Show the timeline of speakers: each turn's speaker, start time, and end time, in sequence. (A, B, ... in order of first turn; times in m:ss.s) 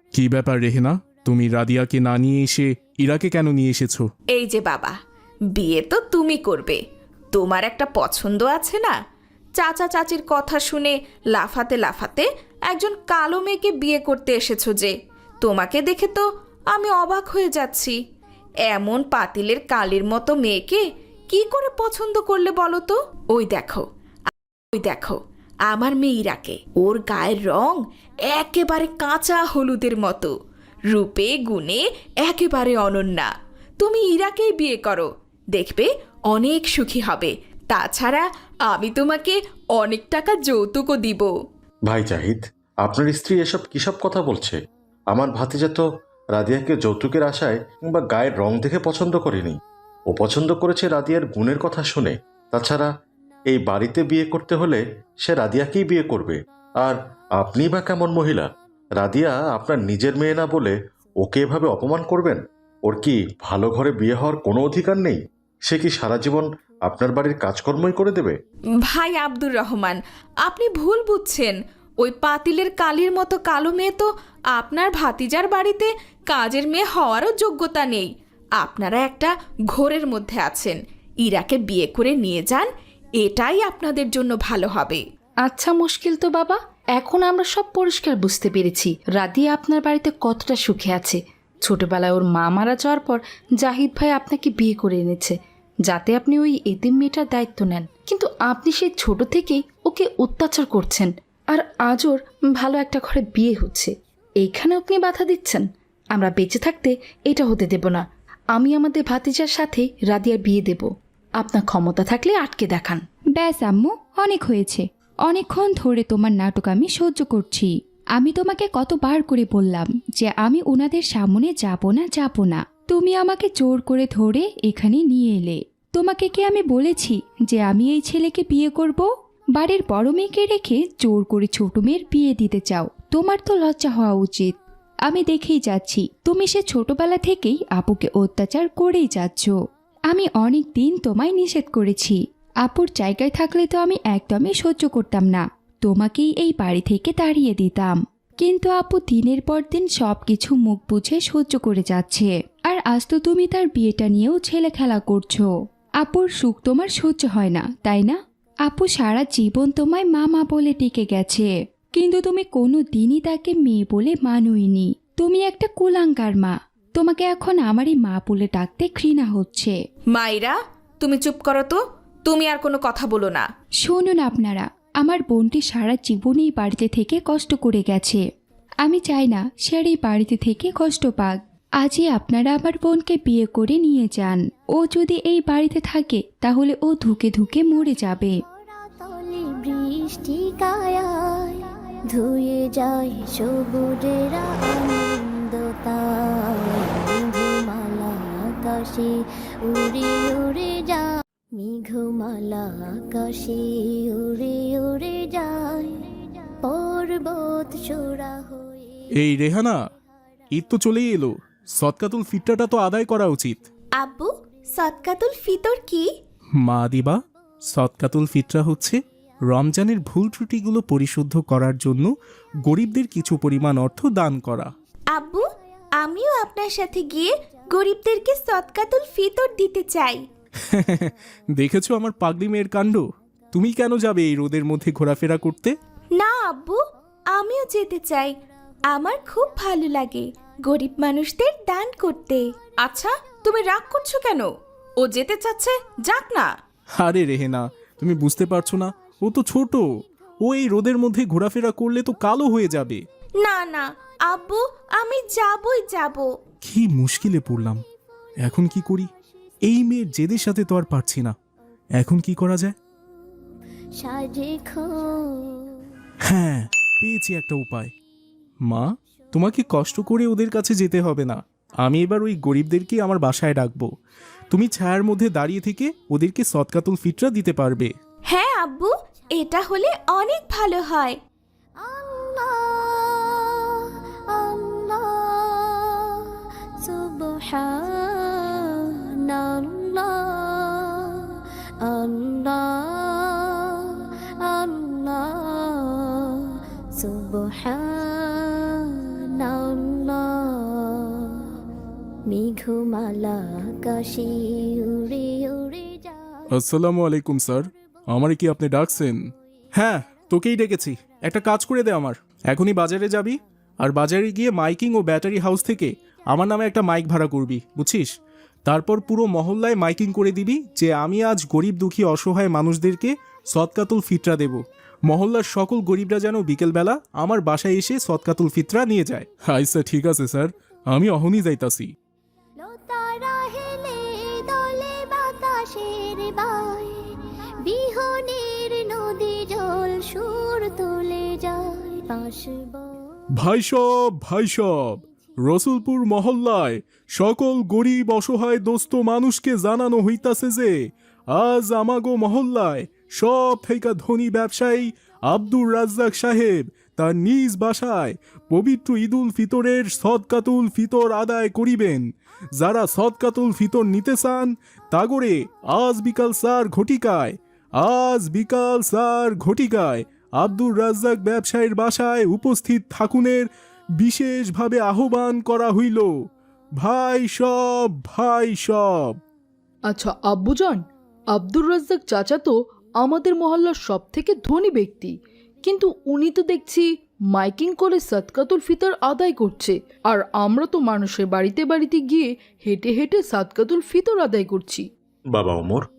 0:00.2-0:04.1 A
0:04.4-0:05.0 B
0:05.6-0:06.8 B
0:07.3-0:09.0 B
0:09.6-0:18.0 B
0:18.7-0:23.8 B
0:24.7-0:25.2 B
0:25.7-0:30.3 B
0:30.9-0:41.3 B
0:41.9-0:44.6 C
0:45.1-0:49.6 C
0:50.1-0:52.9 C
0:53.5-1:08.4 C
1:08.8-1:25.0 B
1:25.5-1:35.4 D
1:35.9-1:53.0 D
1:53.4-2:14.6 E
2:15.1-2:19.6 E
2:20.1-2:35.5 E
2:36.0-2:49.8 E
2:50.1-2:53.5 B
2:53.8-2:58.2 E
2:58.8-3:08.3 E
3:08.5-3:29.0 F
3:29.2-3:29.8 A
3:30.6-3:33.6 A
3:34.0-3:36.1 B
3:36.6-3:37.2 A
3:37.7-3:42.1 A
3:42.7-3:44.7 A
3:45.1-3:45.5 B
3:46.0-3:50.2 B
3:50.6-3:55.8 A
3:56.2-3:56.8 B
3:57.3-3:58.4 B
3:58.9-4:04.5 B
4:05.0-4:06.5 B
4:07.0-4:09.8 A
4:10.4-4:13.0 A
4:13.4-4:16.3 B
4:16.6-4:17.8 A
4:18.4-4:19.1 A
4:19.6-4:21.4 A
4:22.0-4:22.8 A
4:24.0-4:25.8 F
4:26.2-4:27.9 A
4:28.7-4:33.9 A
4:34.5-4:37.9 A
4:38.3-4:41.2 B
4:41.8-5:01.5 F
5:02.3-5:06.5 F
5:06.5-5:09.2 A
5:09.8-5:18.1 A
5:18.7-5:31.9 A
5:32.6-5:43.1 F
5:43.4-5:50.7 A
5:51.3-6:16.1 A
6:16.8-6:19.2 A
6:19.9-6:34.9 G
6:35.3-6:35.8 C